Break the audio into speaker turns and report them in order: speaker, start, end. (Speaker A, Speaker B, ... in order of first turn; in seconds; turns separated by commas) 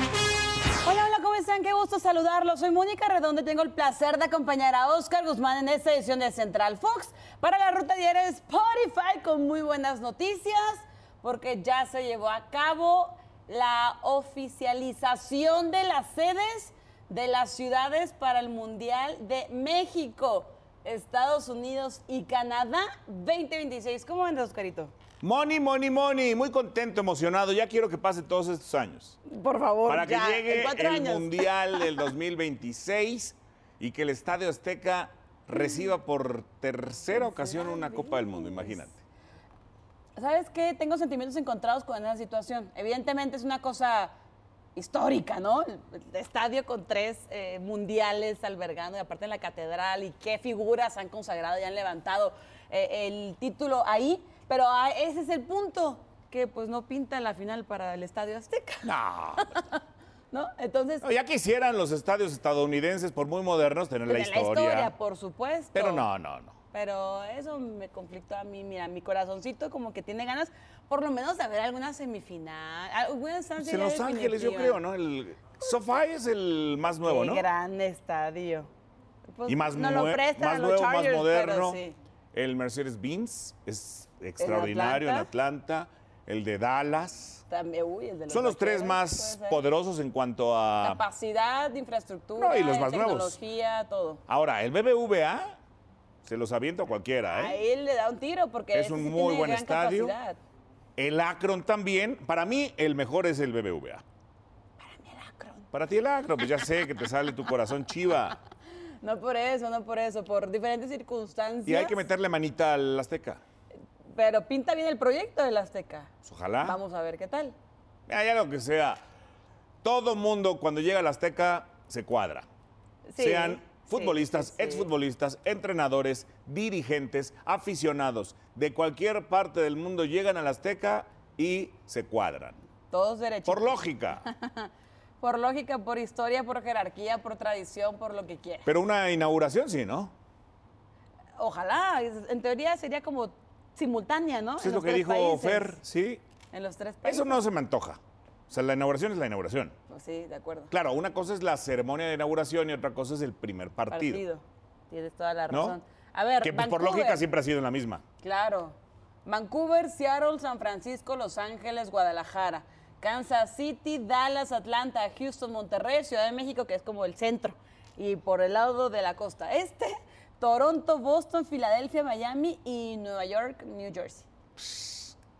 Speaker A: 0.8-24.9, Speaker B: 25.2-29.2, Speaker A: 29.3-32.0, Speaker B: 29.9-39.0, Speaker A: 37.1-38.9, Speaker A: 40.2-44.1, Speaker A: 44.8-59.8, Speaker B: 58.8-59.6, Speaker A: 60.3-61.1, Speaker B: 61.0-64.9, Speaker A: 64.1-66.1, Speaker B: 65.7-66.5, Speaker A: 66.7-74.8, Speaker B: 73.6-77.5, Speaker A: 77.0-78.7, Speaker A: 79.3-82.0, Speaker B: 79.5-81.8, Speaker B: 82.3-87.4, Speaker A: 84.4-85.3, Speaker A: 87.5-89.6, Speaker B: 88.3-91.0, Speaker A: 90.8-94.2, Speaker B: 92.4-93.4, Speaker B: 94.3-95.6, Speaker B: 96.2-97.6, Speaker A: 97.3-100.4, Speaker B: 98.7-100.2, Speaker B: 101.0-104.0, Speaker A: 104.8-105.7, Speaker B: 105.7-108.4, Speaker A: 109.0-112.0, Speaker B: 111.7-113.4, Speaker A: 114.1-117.6, Speaker B: 116.2-116.8, Speaker B: 118.1-119.0, Speaker B: 119.8-122.5, Speaker A: 123.1-124.9, Speaker B: 123.2-132.6, Speaker A: 132.9-138.7, Speaker B: 133.5-134.2, Speaker B: 138.7-140.1, Speaker A: 141.4-145.8, Speaker B: 144.6-146.2, Speaker A: 146.5-147.4, Speaker B: 147.0-149.7, Speaker A: 149.9-150.7, Speaker B: 150.7-154.2, Speaker A: 153.9-157.2, Speaker B: 155.5-155.8, Speaker B: 156.4-158.0, Speaker A: 158.2-174.3, Speaker B: 174.6-175.2